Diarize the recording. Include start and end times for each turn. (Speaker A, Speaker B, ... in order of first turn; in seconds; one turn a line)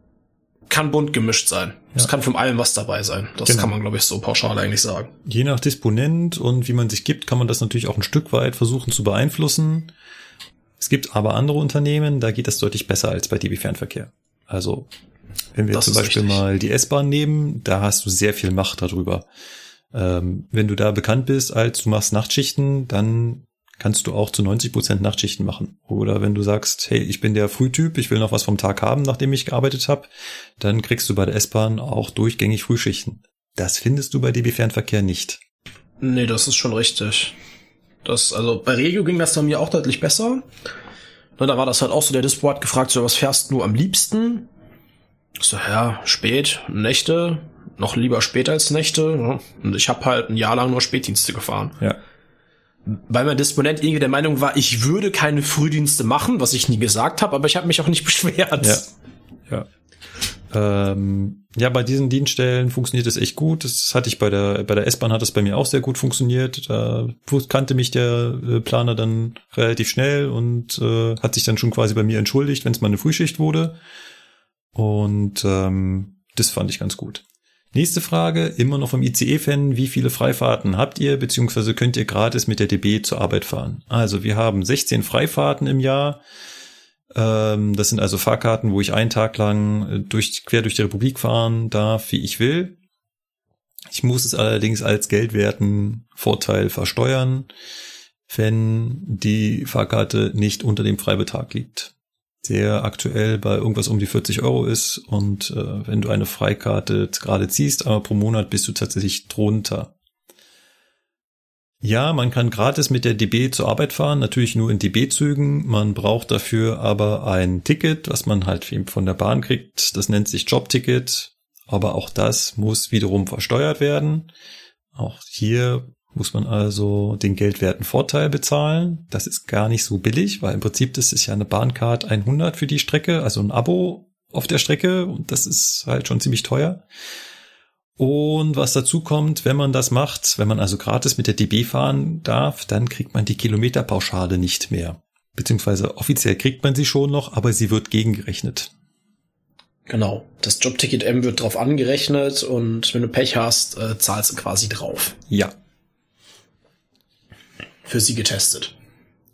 Speaker A: 0.7-5.1
Speaker B: 3.4-3.7
Speaker B: 5.2-9.9
Speaker B: 10.8-14.9
Speaker B: 15.5-19.3
Speaker A: 15.7-16.4
Speaker B: 19.9-35.4
Speaker A: 36.0-37.3
Speaker A: 38.0-40.5
Speaker A: 41.4-44.5
Speaker A: 45.4-51.8
Speaker A: 52.9-58.9
Speaker B: 58.6-58.9
Speaker B: 60.5-73.8
Speaker B: 74.7-86.2
Speaker B: 87.1-92.8
Speaker B: 93.9-97.5
Speaker B: 98.3-101.9
Speaker B: 102.4-109.9
Speaker B: 111.8-124.3
Speaker B: 125.0-136.8
Speaker B: 138.0-148.7
Speaker A: 149.9-155.2
Speaker A: 157.8-158.7